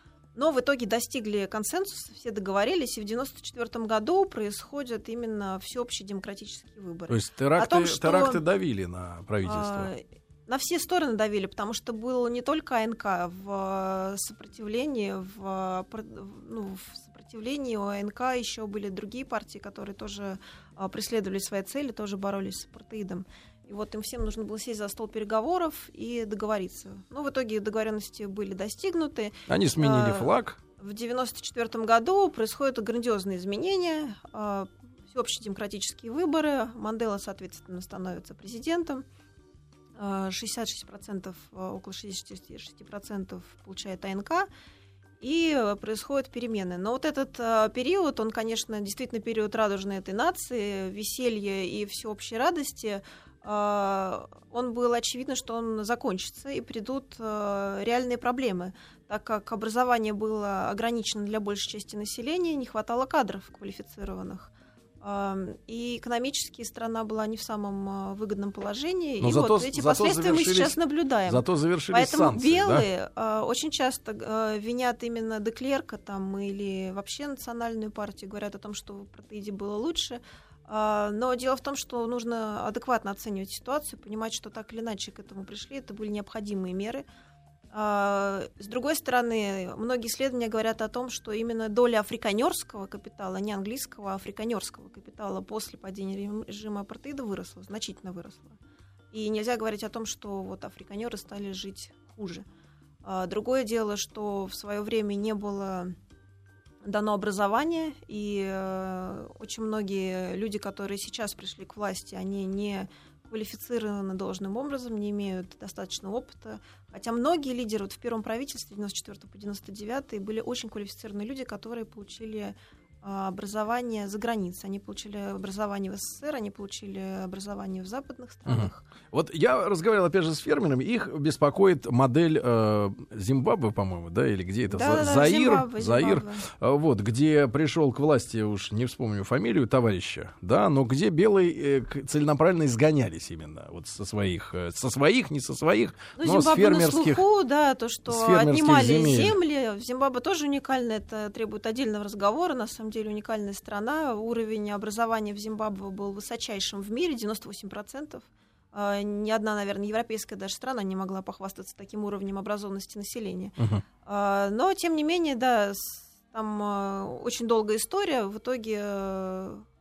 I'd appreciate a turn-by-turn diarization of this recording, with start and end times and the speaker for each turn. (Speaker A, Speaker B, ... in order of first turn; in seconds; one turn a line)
Speaker A: 0.3-8.4
Speaker B: 7.1-9.9
Speaker A: 9.4-39.0
Speaker B: 29.5-30.6
Speaker A: 40.0-44.5
Speaker A: 45.2-87.0
Speaker B: 69.2-72.9
Speaker A: 87.7-98.6
Speaker A: 99.1-102.4
Speaker A: 103.0-105.9
Speaker A: 106.8-128.8
Speaker B: 128.5-147.2
Speaker A: 134.7-136.4
Speaker A: 146.2-169.6
Speaker B: 148.1-149.3